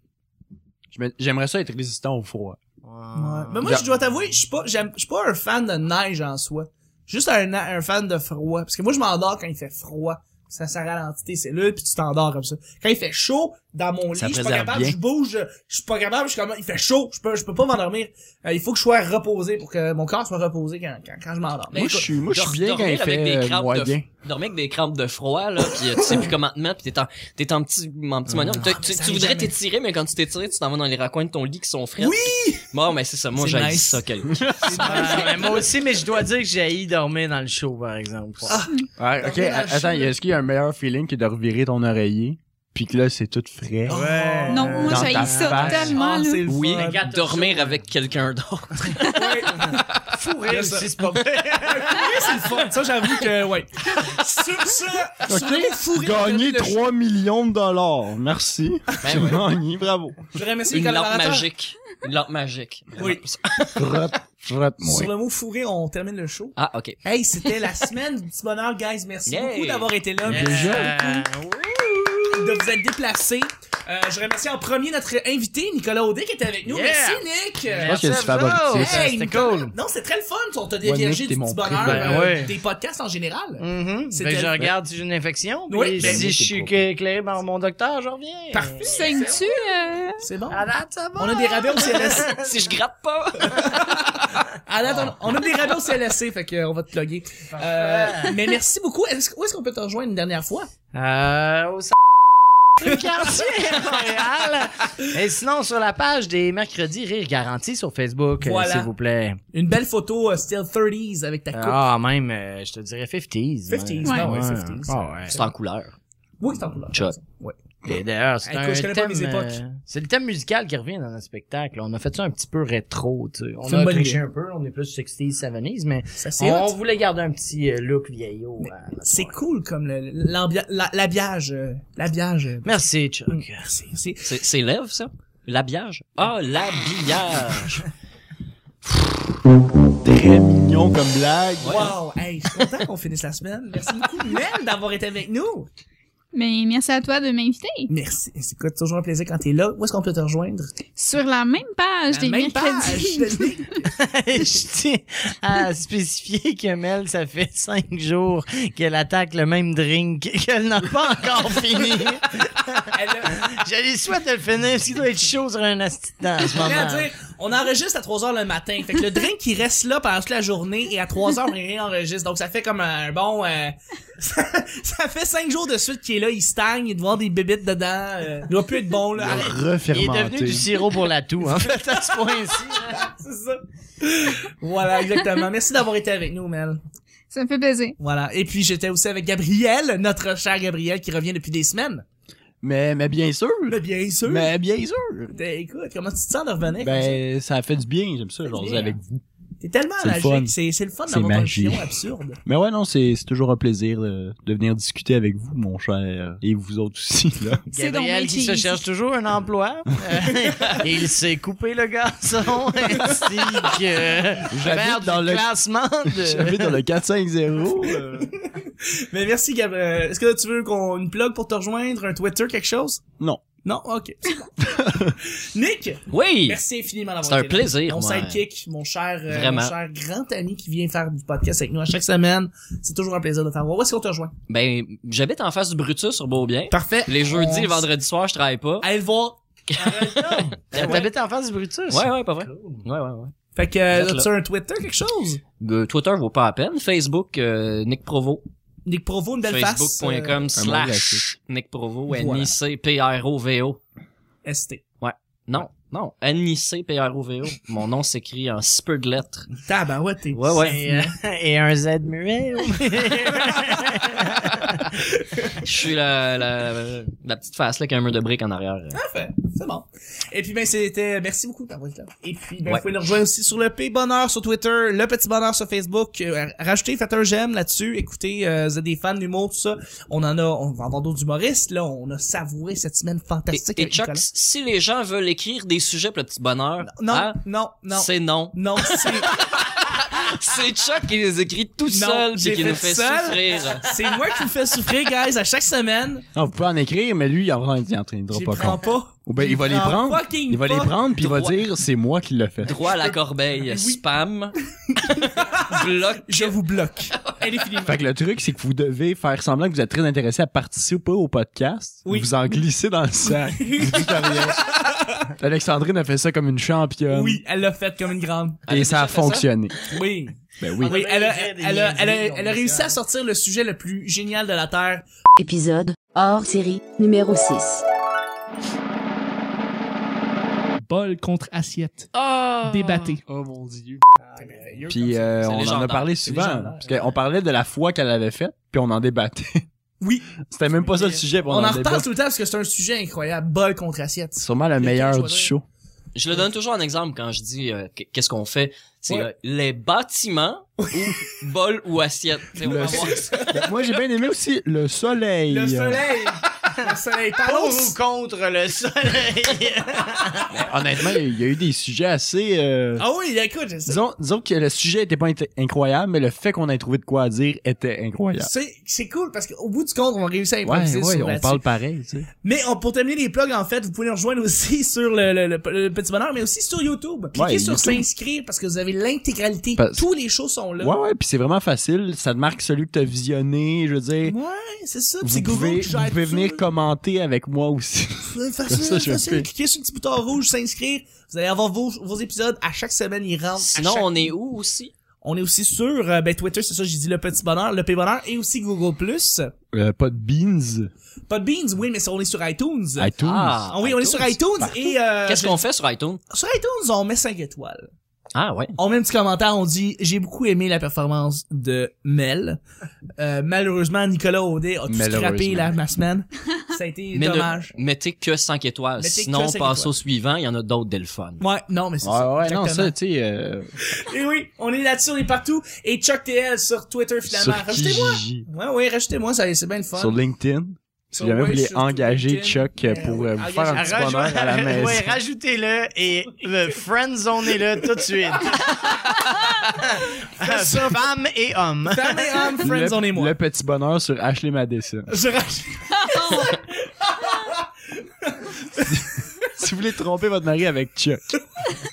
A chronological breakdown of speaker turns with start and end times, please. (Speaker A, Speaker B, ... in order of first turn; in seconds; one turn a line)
Speaker A: 0.9-2.6
Speaker B: 2.8-3.8
Speaker C: 3.1-22.1
Speaker A: 14.1-15.0
Speaker A: 21.7-24.1
Speaker D: 22.3-35.3
Speaker B: 28.3-28.7
Speaker C: 28.7-29.5
Speaker C: 32.0-32.7
Speaker C: 33.4-34.0
Speaker A: 34.3-34.8
Speaker C: 34.6-35.6
Speaker B: 34.8-38.6
Speaker C: 38.5-40.1
Speaker A: 39.0-44.0
Speaker C: 43.9-45.0
Speaker B: 43.9-46.0
Speaker E: 44.5-46.5
Speaker A: 44.8-46.0
Speaker C: 45.7-47.0
Speaker D: 46.5-49.1
Speaker B: 46.7-47.8
Speaker C: 49.0-50.9
Speaker B: 49.4-52.7
Speaker C: 51.6-56.8
Speaker A: 55.2-60.3
Speaker D: 59.0-59.4
Speaker C: 60.3-61.5
Speaker D: 60.7-63.8
Speaker C: 63.0-63.2
Speaker A: 63.8-65.1
Speaker C: 64.8-70.9
Speaker D: 66.6-67.5
Speaker D: 69.3-69.9
Speaker A: 70.2-71.0
Speaker B: 70.2-72.7
Speaker C: 72.3-84.7
Speaker B: 76.7-79.7
Speaker A: 77.8-79.0
Speaker A: 80.8-82.5
Speaker B: 81.8-82.5
Speaker B: 83.6-88.9
Speaker C: 85.7-86.2
Speaker A: 86.0-86.8
Speaker D: 86.0-86.3
Speaker C: 88.5-89.5
Speaker E: 88.8-90.2
Speaker C: 90.2-90.6
Speaker B: 90.5-92.5
Speaker C: 91.2-92.3
Speaker D: 92.3-93.8
Speaker C: 93.4-100.7
Speaker B: 94.8-95.4
Speaker B: 97.5-98.5
Speaker B: 100.9-101.9
Speaker B: 102.8-109.4
Speaker C: 108.4-108.9
Speaker C: 109.5-111.8
Speaker B: 111.5-115.4
Speaker C: 113.7-115.5
Speaker E: 114.0-114.3
Speaker D: 115.3-115.9
Speaker C: 116.4-117.6
Speaker B: 117.8-129.3
Speaker C: 118.4-119.6
Speaker C: 123.7-124.2
Speaker C: 126.2-126.7
Speaker C: 128.6-134.2
Speaker B: 132.6-133.6
Speaker D: 134.2-137.8
Speaker A: 138.8-139.2
Speaker A: 139.9-141.9
Speaker D: 141.6-141.9
Speaker C: 141.7-145.7
Speaker E: 146.3-147.9
Speaker C: 147.9-150.7
Speaker E: 150.9-153.5
Speaker C: 152.1-153.8
Speaker B: 153.8-167.1
Speaker C: 162.9-163.4
Speaker C: 166.5-179.6
Speaker A: 179.2-180.7
Speaker B: 179.9-183.1
Speaker C: 182.8-186.8
Speaker E: 187.3-187.9
Speaker C: 188.0-192.0
Speaker A: 192.6-195.3
Speaker C: 193.7-194.5
Speaker C: 195.3-197.2
Speaker A: 196.8-199.2
Speaker C: 198.5-199.0
Speaker C: 199.6-202.4
Speaker A: 200.0-200.5
Speaker A: 201.1-201.9
Speaker A: 202.4-207.6
Speaker B: 207.7-216.8
Speaker E: 207.7-208.8
Speaker C: 213.0-213.7
Speaker A: 214.5-215.5
Speaker A: 216.1-218.3
Speaker C: 218.4-223.0
Speaker C: 223.6-234.3
Speaker A: 224.6-225.2
Speaker D: 226.1-226.6
Speaker D: 227.2-228.4
Speaker D: 229.3-229.7
Speaker D: 234.5-238.9
Speaker C: 236.7-237.8
Speaker C: 238.8-239.4
Speaker D: 239.7-241.1
Speaker B: 239.8-242.8
Speaker C: 240.7-241.1
Speaker D: 241.9-243.3
Speaker C: 243.6-245.4
Speaker D: 243.9-244.3
Speaker D: 245.6-248.4
Speaker C: 248.8-250.4
Speaker D: 249.4-253.8
Speaker A: 250.6-251.3
Speaker C: 252.1-252.5
Speaker C: 254.4-254.8
Speaker D: 255.0-259.5
Speaker C: 259.6-261.1
Speaker D: 260.3-260.8
Speaker B: 260.6-264.8
Speaker C: 264.6-265.6
Speaker D: 265.6-269.0
Speaker C: 268.9-284.2
Speaker D: 283.5-293.9
Speaker C: 286.9-289.3
Speaker C: 291.9-296.2
Speaker A: 296.3-302.8
Speaker C: 298.3-300.9
Speaker D: 301.2-301.6
Speaker D: 302.6-306.6
Speaker C: 302.9-304.0
Speaker C: 304.9-308.0
Speaker A: 307.8-314.7
Speaker C: 312.0-312.5
Speaker C: 313.3-315.3
Speaker A: 315.4-317.4
Speaker C: 317.1-318.6
Speaker D: 318.7-319.5
Speaker A: 318.7-319.8
Speaker C: 319.9-325.0
Speaker A: 320.6-321.0
Speaker B: 320.8-323.0
Speaker F: 325.4-327.8
Speaker C: 330.8-332.1
Speaker D: 332.1-333.0
Speaker C: 332.6-333.2
Speaker A: 333.2-334.0
Speaker C: 334.2-335.5
Speaker B: 334.4-334.7
Speaker A: 334.9-339.6
Speaker D: 335.4-336.1
Speaker C: 336.2-336.9
Speaker C: 340.0-340.3
Speaker A: 340.4-342.0
Speaker C: 341.4-345.5
Speaker A: 344.4-345.6
Speaker D: 346.1-353.5
Speaker C: 350.8-351.2
Speaker A: 352.6-356.0
Speaker C: 352.6-353.6
Speaker C: 355.5-358.0
Speaker B: 357.4-360.5
Speaker A: 360.5-363.0
Speaker C: 363.0-364.0
Speaker A: 363.9-368.5
Speaker C: 368.4-371.6
Speaker A: 370.6-372.3
Speaker C: 372.4-380.9
Speaker A: 377.3-378.1
Speaker A: 379.8-380.1
Speaker A: 380.8-384.4
Speaker C: 384.2-386.6
Speaker A: 385.2-389.5
Speaker C: 388.2-394.3
Speaker D: 393.6-394.9
Speaker C: 395.2-399.5
Speaker A: 399.7-400.9
Speaker C: 401.3-403.1
Speaker A: 403.0-403.6
Speaker D: 403.2-406.2
Speaker C: 403.7-405.6
Speaker C: 406.3-407.9
Speaker D: 408.3-408.7
Speaker C: 408.8-412.6
Speaker C: 413.2-417.7
Speaker A: 414.9-415.8
Speaker D: 417.1-421.4
Speaker C: 419.0-419.9
Speaker C: 421.4-422.9
Speaker A: 422.0-423.7
Speaker C: 423.8-430.2
Speaker A: 427.3-428.4
Speaker A: 429.9-435.2
Speaker C: 431.1-434.2
Speaker B: 433.7-439.0
Speaker B: 439.6-442.6
Speaker C: 440.4-441.0
Speaker C: 441.9-443.3
Speaker A: 442.6-445.1
Speaker C: 445.1-447.7
Speaker E: 446.0-446.6
Speaker C: 448.2-449.2
Speaker A: 449.5-451.2